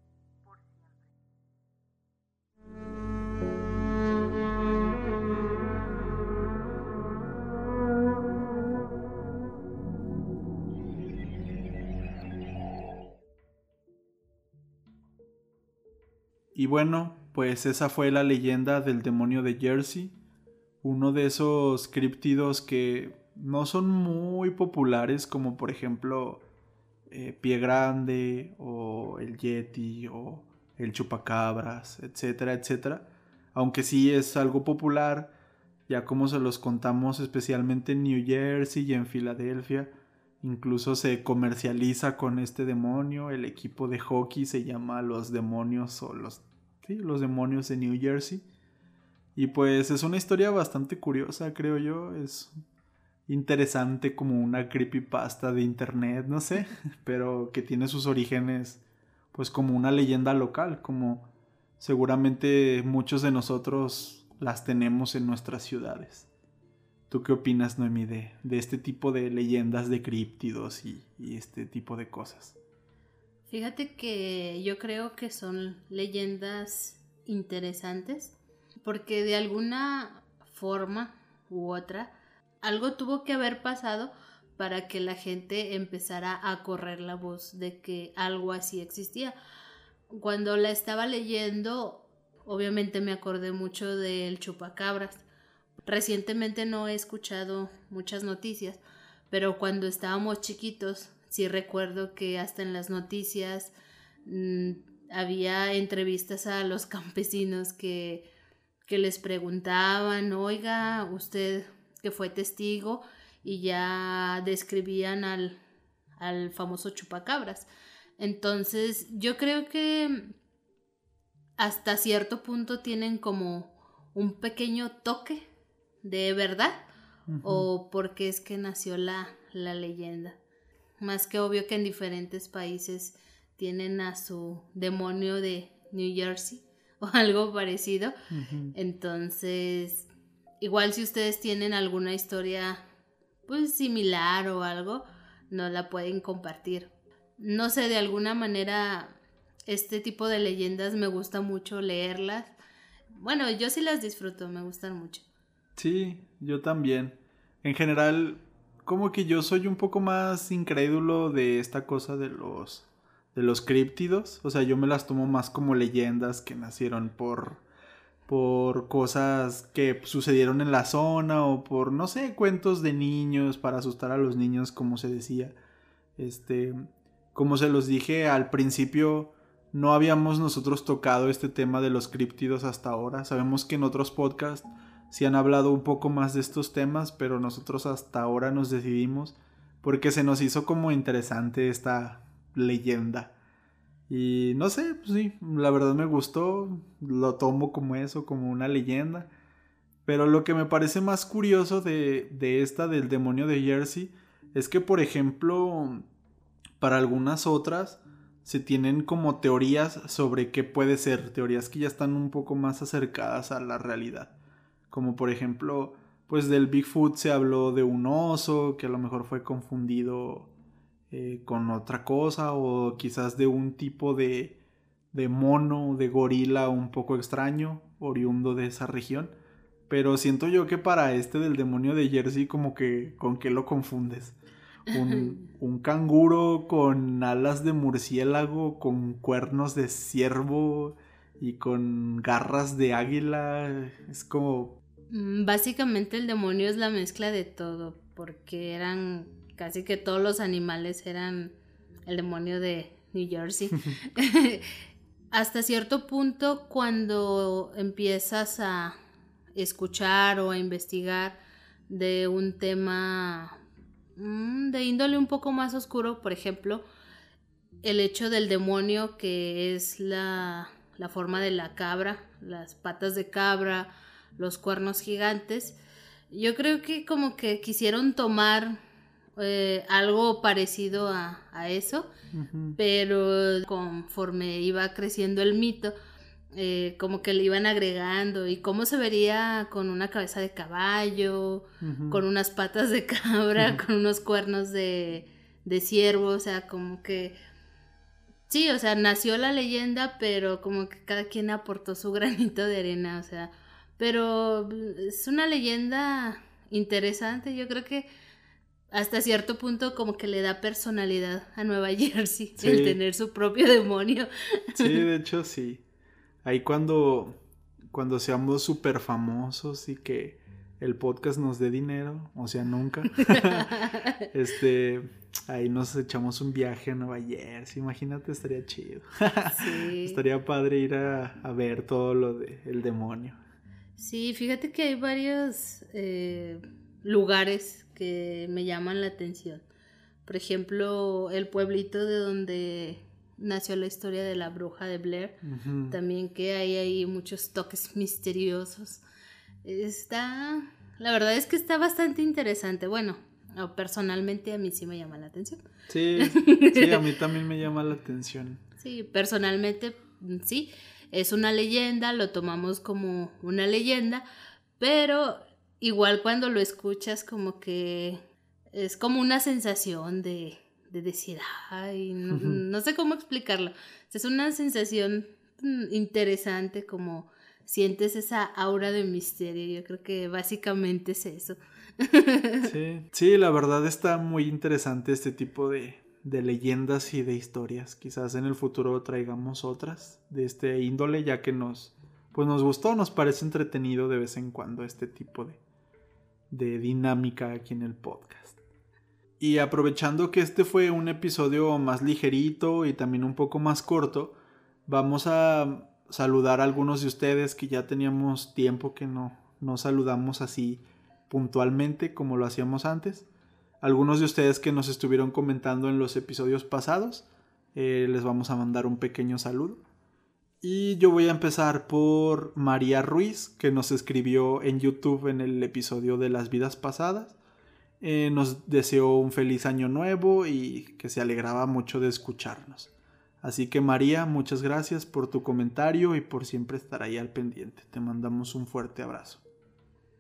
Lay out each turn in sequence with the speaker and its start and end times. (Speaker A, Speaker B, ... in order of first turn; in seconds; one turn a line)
Speaker A: 0.5-0.9
Speaker B: 16.5-20.1
Speaker B: 20.8-26.4
Speaker B: 27.1-35.3
Speaker B: 35.9-48.4
Speaker B: 49.3-52.5
Speaker B: 53.3-58.8
Speaker B: 59.3-61.2
Speaker B: 61.8-66.3
Speaker B: 67.1-72.6
Speaker A: 73.5-89.4
Speaker A: 90.1-95.2
Speaker A: 95.8-103.7
Speaker A: 104.2-108.3
Speaker A: 108.9-115.6
Speaker A: 116.2-117.7
Speaker A: 118.2-120.3
Speaker A: 121.6-125.4
Speaker A: 126.0-126.8
Speaker B: 127.3-127.7
Speaker A: 127.4-130.4
Speaker A: 131.0-138.1
Speaker B: 138.3-138.7
Speaker A: 138.7-140.1
Speaker A: 140.6-142.8
Speaker A: 143.5-149.2
Speaker A: 149.7-152.5
Speaker A: 153.1-155.2
Speaker B: 155.8-167.6
Speaker B: 168.3-175.6
Speaker B: 176.2-176.8
Speaker B: 177.3-193.3
Speaker B: 194.1-199.3
Speaker B: 200.1-206.0
Speaker B: 206.8-214.3
Speaker B: 214.9-220.5
Speaker B: 221.1-224.6
Speaker B: 225.1-229.3
Speaker B: 229.9-234.3
Speaker B: 234.9-244.8
Speaker A: 235.0-235.3
Speaker A: 245.1-251.5
Speaker A: 252.1-254.7
Speaker A: 255.3-258.9
Speaker A: 259.6-263.6
Speaker A: 264.1-266.8
Speaker A: 267.8-275.8
Speaker A: 276.3-278.8
Speaker A: 279.4-282.1
Speaker B: 282.3-282.8
Speaker A: 282.8-285.9
Speaker A: 286.5-297.4
Speaker B: 291.8-292.2
Speaker A: 298.5-308.1
Speaker A: 308.9-315.0
Speaker B: 312.6-313.0
Speaker B: 314.8-315.8
Speaker B: 316.4-317.4
Speaker B: 317.9-323.8
Speaker A: 323.3-324.2
Speaker B: 324.3-333.4
Speaker A: 329.5-330.2
Speaker A: 334.0-339.6
Speaker A: 340.2-349.0
Speaker B: 345.4-346.0
Speaker A: 349.6-355.6
Speaker B: 355.9-358.6
Speaker A: 356.2-357.0
Speaker A: 358.8-364.2
Speaker A: 364.8-368.2
Speaker A: 368.7-382.7
Speaker B: 372.3-372.6
Speaker B: 382.6-395.6
Speaker B: 396.5-398.6
Speaker B: 399.4-404.3
Speaker B: 404.9-413.2
Speaker B: 413.8-419.8
Speaker B: 420.6-427.4
Speaker B: 428.0-439.4